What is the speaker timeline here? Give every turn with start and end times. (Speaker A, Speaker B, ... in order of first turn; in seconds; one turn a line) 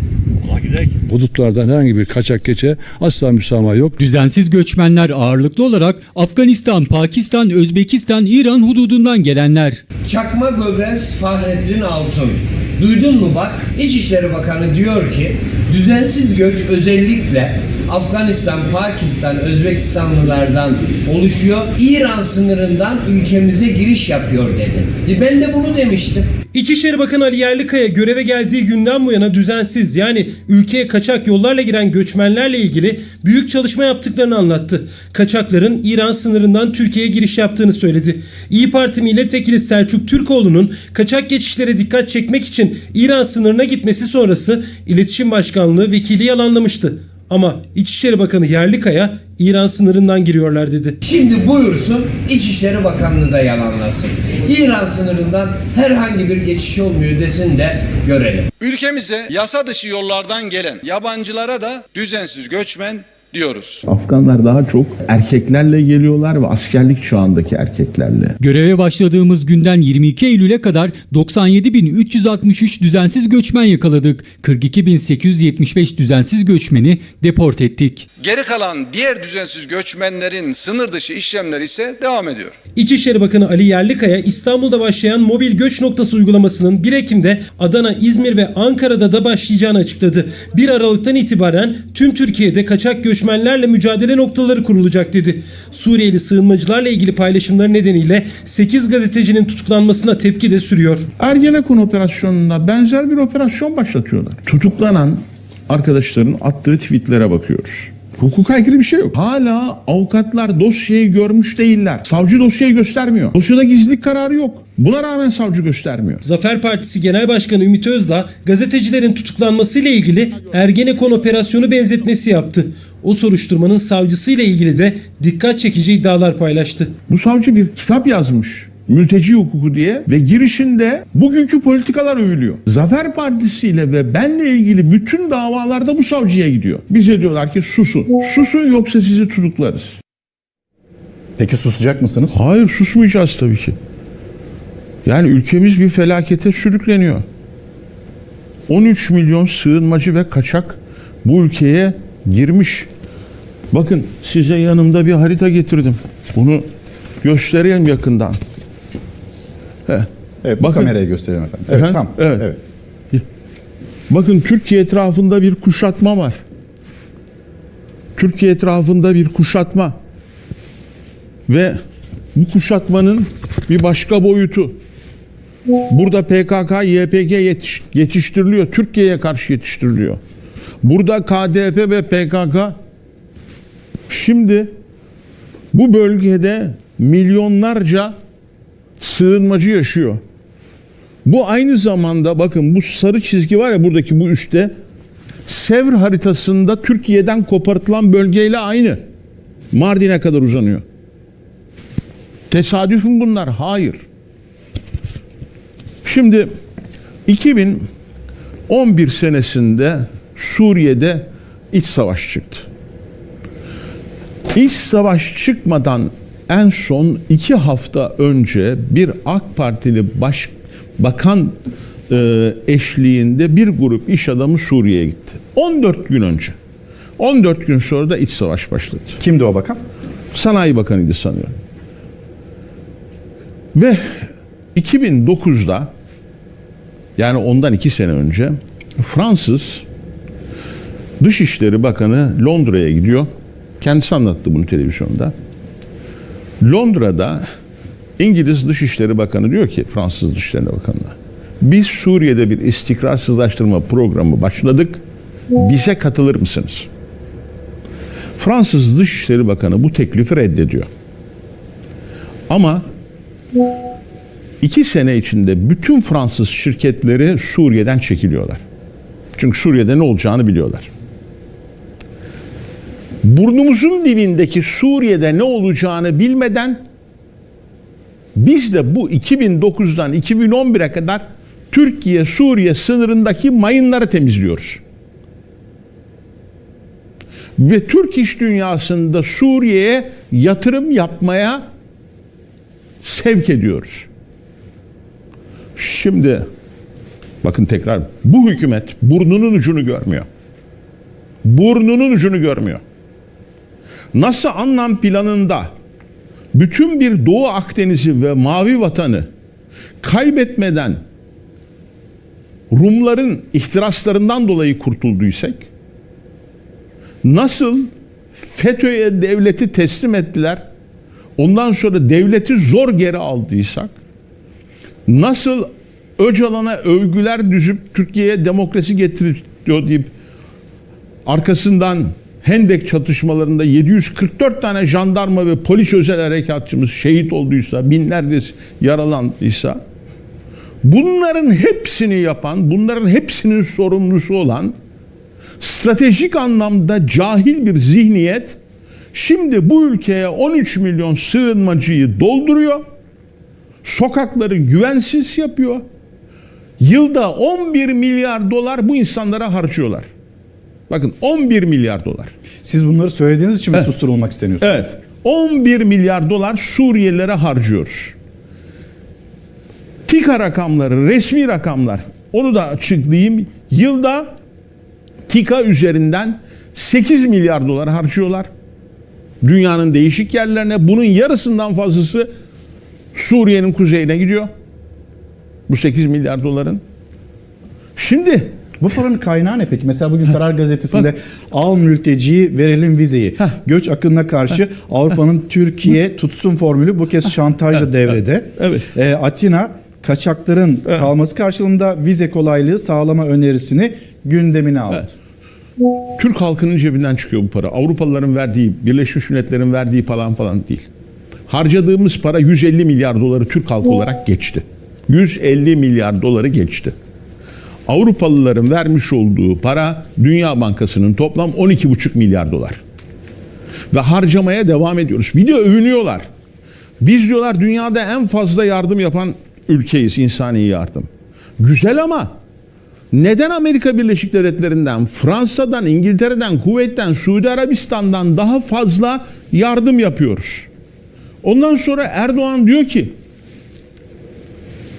Speaker A: 0.5-4.0
Speaker B: 4.0-9.8
Speaker C: 10.1-26.3
Speaker D: 26.5-51.0
Speaker C: 51.0-58.5
Speaker E: 58.6-63.8
Speaker F: 63.9-68.4
Speaker B: 68.4-78.1
Speaker E: 78.2-82.5
Speaker D: 82.8-101.1
Speaker F: 101.2-116.2
Speaker D: 116.2-127.0
Speaker F: 127.1-140.0
Speaker G: 141.4-142.4
Speaker F: 142.3-143.8
Speaker F: 145.1-147.2
Speaker F: 148.7-152.9
Speaker F: 153.7-156.7
Speaker F: 157.2-158.4
Speaker G: 160.4-162.6
Speaker F: 160.6-160.9
Speaker F: 161.7-162.4
Speaker F: 164.1-166.4
Speaker F: 168.2-170.0
Speaker F: 171.5-171.8
Speaker F: 172.3-174.8
Speaker F: 175.9-180.2
Speaker F: 180.8-182.8
Speaker F: 184.1-184.7
Speaker F: 185.7-188.2
Speaker F: 189.0-190.2
Speaker F: 191.2-194.7
Speaker F: 195.5-199.0
Speaker F: 199.7-200.8
Speaker F: 202.5-204.0
Speaker F: 206.0-206.5
Speaker F: 207.3-207.9
Speaker F: 208.7-212.7
Speaker F: 214.5-221.6
Speaker F: 222.1-226.6
Speaker F: 227.2-229.2
Speaker G: 229.2-229.8
Speaker F: 230.3-231.5
Speaker F: 233.7-235.9
Speaker F: 237.2-239.8
Speaker F: 241.2-243.3
Speaker F: 243.8-245.3
Speaker F: 246.6-247.5
Speaker F: 248.2-255.0
Speaker F: 255.5-256.9
Speaker F: 258.4-260.9
Speaker F: 262.5-262.9
Speaker F: 264.6-268.6
Speaker F: 269.4-270.9
Speaker F: 273.2-276.8
Speaker F: 278.4-284.8
Speaker F: 287.6-291.6
Speaker F: 293.0-294.1
Speaker F: 295.8-296.5
Speaker F: 297.4-300.3
Speaker F: 301.4-302.8
Speaker F: 304.1-305.7
Speaker F: 306.5-309.3
Speaker F: 310.0-311.0
Speaker F: 312.7-315.6
Speaker F: 317.2-320.6
Speaker F: 321.4-323.9
Speaker F: 325.1-330.1
Speaker F: 331.3-339.8
Speaker F: 340.8-344.8
Speaker F: 345.6-348.6
Speaker F: 349.1-352.8
Speaker F: 353.8-355.9
Speaker F: 356.8-360.1
Speaker F: 360.9-362.3
Speaker G: 362.6-364.9
Speaker F: 364.6-368.1
Speaker F: 370.1-374.4
Speaker F: 375.3-378.5
Speaker F: 379.4-382.3
Speaker F: 383.1-384.5
Speaker F: 385.7-386.8
Speaker F: 388.0-388.5
Speaker G: 388.8-405.1
Speaker F: 398.6-398.9
Speaker F: 406.2-410.9
Speaker F: 411.5-416.9
Speaker F: 417.9-422.8
Speaker F: 423.9-426.3
Speaker F: 427.0-432.4
Speaker F: 433.1-440.7
Speaker F: 441.4-443.1